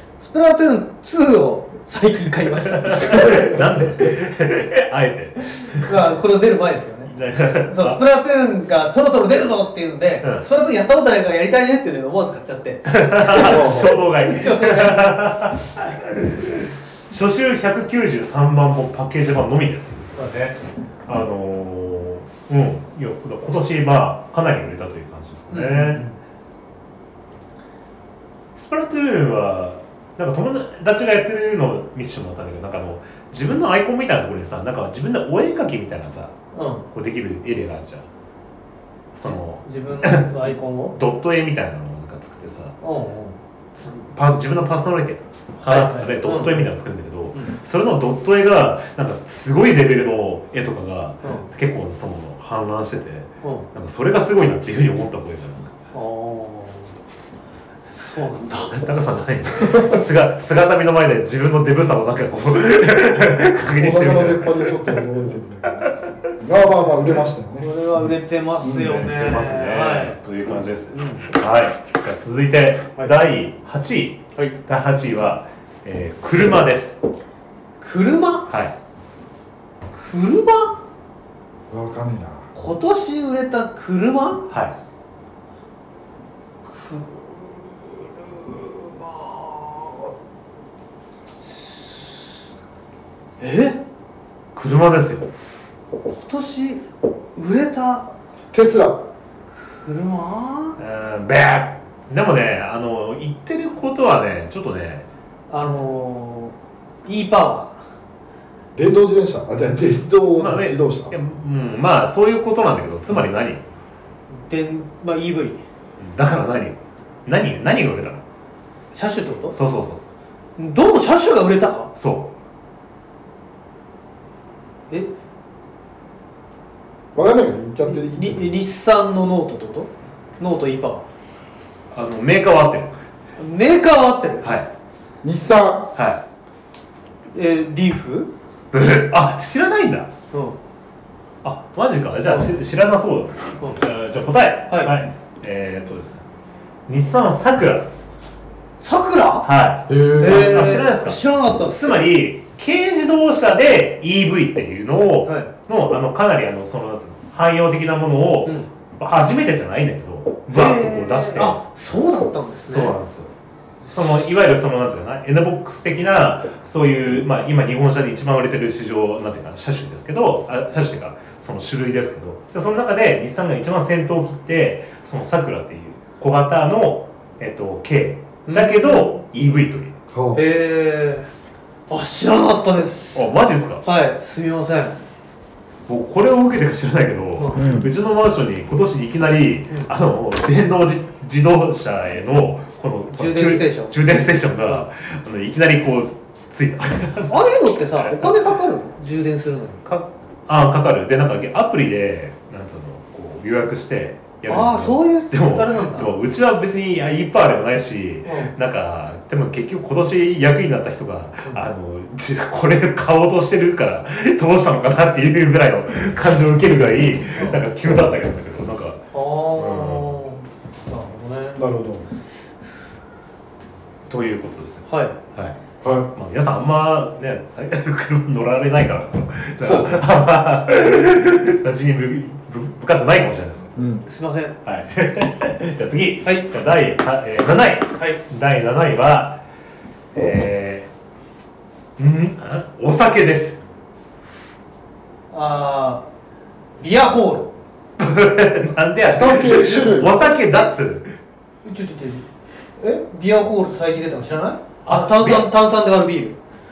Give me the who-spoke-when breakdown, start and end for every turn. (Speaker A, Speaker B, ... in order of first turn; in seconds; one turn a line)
Speaker A: 0.2-3.6
Speaker B: 2.7-6.0
Speaker A: 5.6-7.1
Speaker B: 7.1-8.0
Speaker A: 7.7-15.1
Speaker B: 12.9-26.0
Speaker C: 13.4-14.0
Speaker A: 25.5-26.2
Speaker B: 28.6-36.4
Speaker A: 36.5-36.9
Speaker B: 36.9-38.1
Speaker B: 39.1-40.4
Speaker A: 39.2-41.0
Speaker B: 40.9-42.8
Speaker A: 42.8-43.4
Speaker B: 43.9-55.7
Speaker A: 45.6-46.7
Speaker A: 53.4-53.7
Speaker A: 55.9-56.9
Speaker A: 57.9-58.7
Speaker B: 58.7-65.0
Speaker C: 59.6-60.0
Speaker C: 63.8-68.1
Speaker B: 65.8-66.1
Speaker A: 67.6-70.2
Speaker C: 68.6-69.0
Speaker B: 68.7-77.0
Speaker A: 70.9-71.3
Speaker A: 77.8-78.5
Speaker B: 78.5-78.7
Speaker A: 79.9-80.8
Speaker C: 81.7-82.5
Speaker A: 82.5-84.5
Speaker B: 84.5-84.8
Speaker A: 86.6-90.1
Speaker A: 91.4-92.2
Speaker A: 93.4-93.8
Speaker B: 94.5-95.3
Speaker A: 96.1-96.8
Speaker A: 97.4-98.1
Speaker C: 98.5-99.1
Speaker A: 99.6-100.8
Speaker B: 100.8-105.1
Speaker A: 105.5-107.8
Speaker C: 108.8-111.2
Speaker B: 110.4-113.6
Speaker A: 114.3-115.6
Speaker B: 116.0-118.2
Speaker A: 118.9-119.5
Speaker B: 119.5-120.1
Speaker A: 120.6-121.9
Speaker B: 122.0-122.3
Speaker C: 127.2-128.5
Speaker A: 127.9-131.1
Speaker B: 131.9-133.0
Speaker A: 133.4-134.5
Speaker B: 134.4-134.7
Speaker C: 135.2-135.9
Speaker B: 135.9-136.2
Speaker A: 137.3-138.3
Speaker B: 138.7-140.1
Speaker A: 140.3-140.6
Speaker B: 141.4-146.2
Speaker A: 144.7-144.9
Speaker B: 146.9-147.9
Speaker A: 148.8-149.5
Speaker B: 149.4-161.6
Speaker C: 149.9-150.6
Speaker A: 150.2-151.9
Speaker A: 155.2-155.5
Speaker A: 160.5-163.0
Speaker B: 162.7-163.3
Speaker B: 163.9-179.9
Speaker A: 178.5-179.1
Speaker C: 180.1-180.4
Speaker A: 180.3-181.3
Speaker A: 181.9-183.3
Speaker B: 183.2-183.8
Speaker A: 183.8-185.0
Speaker B: 185.9-197.4
Speaker A: 187.4-187.6
Speaker C: 187.6-187.9
Speaker A: 193.2-194.0
Speaker A: 197.3-199.8
Speaker B: 198.0-198.3
Speaker B: 199.9-220.2
Speaker A: 204.5-206.1
Speaker A: 208.2-208.5
Speaker A: 217.4-217.6
Speaker A: 219.1-221.6
Speaker C: 221.6-222.1
Speaker B: 224.1-225.6
Speaker A: 224.9-225.2
Speaker C: 225.8-226.1
Speaker B: 226.1-233.7
Speaker C: 229.6-230.0
Speaker C: 233.8-234.0
Speaker A: 234.1-234.6
Speaker B: 234.7-239.4
Speaker B: 240.1-240.9
Speaker B: 242.0-243.6
Speaker A: 245.3-246.0
Speaker A: 246.8-247.5
Speaker B: 248.0-251.2
Speaker C: 249.1-250.2
Speaker A: 251.6-252.3
Speaker A: 252.8-256.4
Speaker B: 254.9-255.5